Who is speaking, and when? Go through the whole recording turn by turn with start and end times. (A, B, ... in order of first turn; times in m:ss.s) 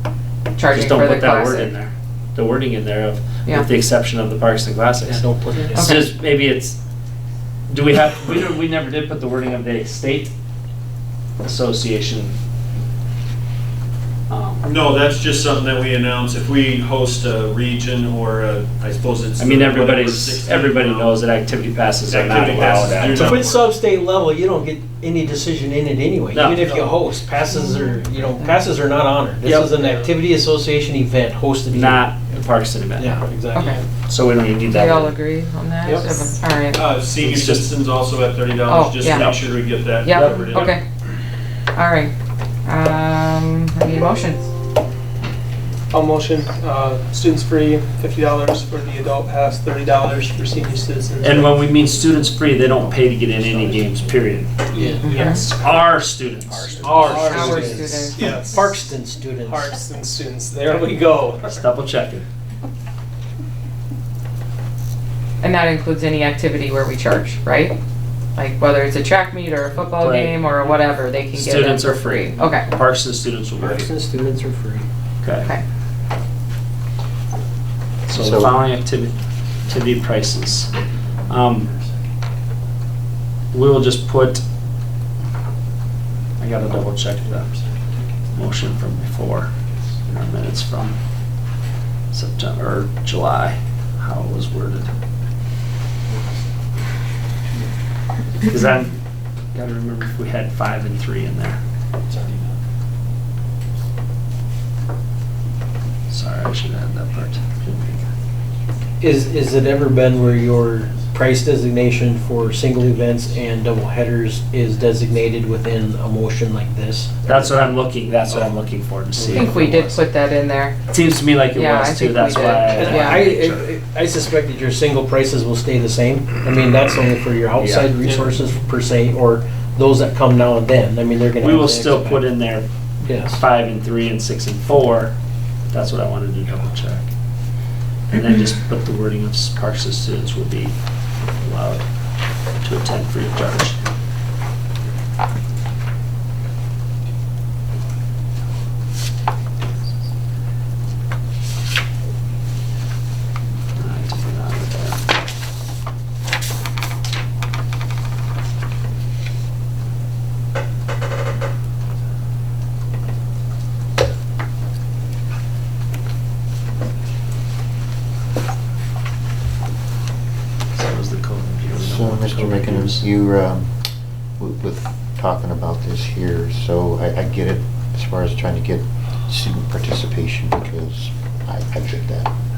0:00.6-0:01.7 A
0:00.7-0:06.8 B
0:05.0-0:05.9 C
0:05.7-0:06.1 A
0:07.7-0:10.3 B
0:11.4-0:12.3 B
0:14.3-0:14.6 B
0:14.6-0:21.2 D
0:19.4-0:23.3 B
0:22.1-0:23.6 D
0:23.1-0:32.1 C
0:26.3-0:26.6 B
0:26.6-0:27.0 E
0:27.5-0:27.8 A
0:29.4-0:30.1 E
0:31.7-0:33.2 B
0:33.0-0:33.8 C
0:33.5-0:33.8 A
0:34.0-0:35.1 B
0:34.7-0:36.8 A
0:36.7-0:40.8 D
0:37.2-0:37.7 B
0:38.6-0:39.2 A
0:39.0-0:39.6 B
0:40.0-0:40.8 A
0:40.1-0:40.6 B
0:41.7-0:42.1 A
0:42.6-0:44.5 A
0:45.9-0:51.7 E
0:51.2-0:57.9 B
0:54.7-0:55.4 C
0:55.0-0:55.4 E
0:55.0-0:55.4 A
0:56.7-0:59.7 C
0:56.9-1:01.6 E
0:57.2-0:58.2 A
1:01.4-1:02.2 B
1:05.4-1:07.8 A
1:08.4-1:12.7 A
1:09.7-1:10.5 B
1:11.3-1:13.9 B
1:13.6-1:14.8 C
1:15.2-1:15.5 B
1:18.1-1:20.7 B
1:18.1-1:18.6 F
1:21.3-1:21.7 B
1:23.5-1:24.4 B
1:26.4-1:27.5 B
1:28.3-1:29.5 B
1:30.1-1:31.0 B
1:32.1-1:34.9 B
1:38.4-1:38.9 B
1:39.5-1:41.6 B
1:46.1-1:48.0 B
1:49.0-1:57.1 C
1:57.2-2:00.0 B
1:59.2-1:59.5 C
1:59.3-2:00.8 A
2:00.9-2:03.6 B
2:01.5-2:03.3 A
2:02.6-2:12.3 C
2:07.6-2:07.9 B
2:08.0-2:08.4 E
2:11.4-2:12.6 B
2:13.0-2:13.4 C
2:13.3-2:15.1 B
2:15.7-2:17.1 B
2:18.1-2:20.7 B
2:21.4-2:21.9 B
2:22.6-2:23.8 B
2:33.8-2:35.0 B
2:50.7-2:53.0 B
2:51.7-2:53.7 F
2:54.4-3:02.3 F